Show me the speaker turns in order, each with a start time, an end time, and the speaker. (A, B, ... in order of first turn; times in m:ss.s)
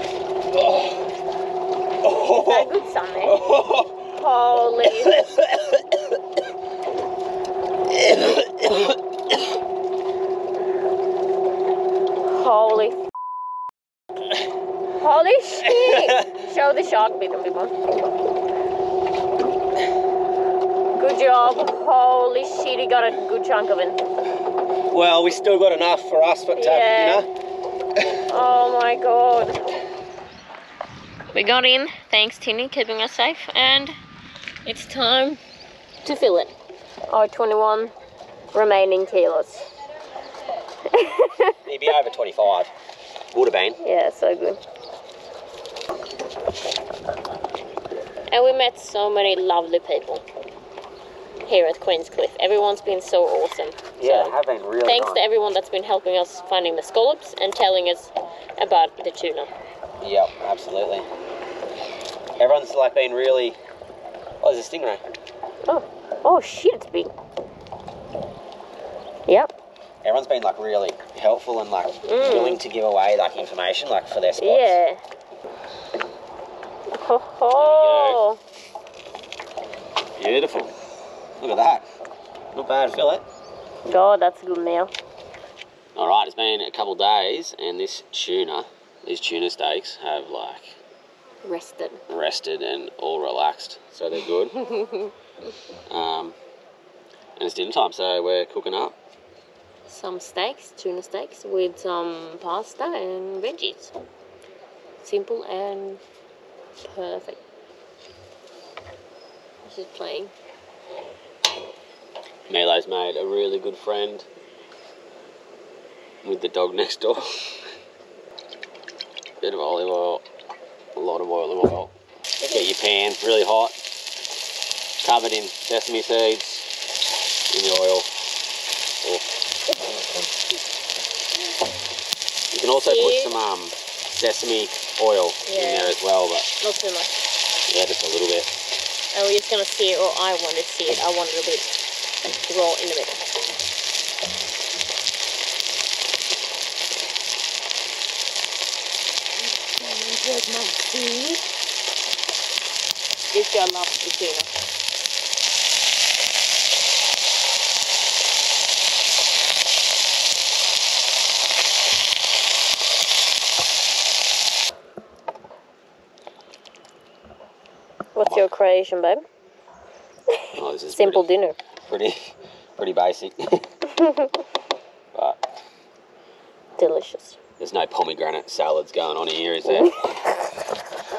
0:00.5-0:01.0 A
0:02.0-0:02.7 A
0:02.1-0:03.5 B
0:03.2-0:04.0 A
0:04.1-0:05.2 B
0:04.9-0:06.0 A
0:07.9-0:09.0 A
0:12.2-0:13.0 B
0:15.0-0:17.8 B
0:15.6-0:16.3 A
0:21.0-0:24.0 B
0:24.9-0:27.3 A
0:26.6-0:27.3 B
0:28.3-0:29.6 B
0:31.3-0:33.9 B
0:34.6-0:35.4 B
0:36.0-0:36.5 B
0:37.1-0:37.9 B
0:38.5-0:39.7 B
0:40.8-0:41.6 B
0:41.7-0:42.7 A
0:43.3-0:43.8 A
0:43.8-0:44.6 B
0:48.3-0:50.2 B
0:51.4-0:54.4 B
0:54.0-0:55.2 A
0:54.9-0:59.5 B
1:00.0-1:01.1 A
1:02.4-1:03.6 A
1:04.4-1:05.0 A
1:05.7-1:07.1 B
1:09.3-1:09.5 B
1:10.0-1:14.8 A
1:12.0-1:12.6 B
1:14.4-1:15.0 B
1:17.0-1:18.4 B
1:17.6-1:18.2 A
1:20.2-1:20.7 A
1:21.4-1:21.9 A
1:22.5-1:23.2 A
1:23.9-1:24.9 B
1:26.0-1:30.8 A
1:31.4-1:32.0 B
1:32.1-1:34.6 A
1:34.6-1:35.1 B
1:35.9-1:36.4 A
1:37.4-1:39.0 A
1:39.9-1:43.9 B
1:45.0-1:46.0 B
1:46.8-1:47.4 B
1:49.7-1:50.3 B
1:52.5-1:54.3 A
1:56.2-1:57.3 A
1:59.4-2:00.2 A
2:01.0-2:01.9 A
2:02.4-2:02.7 B
2:02.4-2:03.8 A
2:05.0-2:06.7 A
2:07.5-2:08.1 A
2:12.5-2:16.5 A
2:12.7-2:13.4 B
2:15.4-2:16.0 B
2:16.6-2:17.2 B
2:17.7-2:18.5 A
2:19.1-2:21.7 B
2:22.4-2:23.2 B
2:29.6-2:31.4 B
2:33.3-2:34.5 B
2:48.2-2:49.2 B
2:48.2-2:48.5 A
2:50.3-2:51.6 B
2:50.6-2:51.3 A
2:51.8-2:53.7 A
2:53.9-2:54.3 B
2:56.8-2:57.4 B
2:57.6-3:00.0 A
2:59.7-3:00.1 B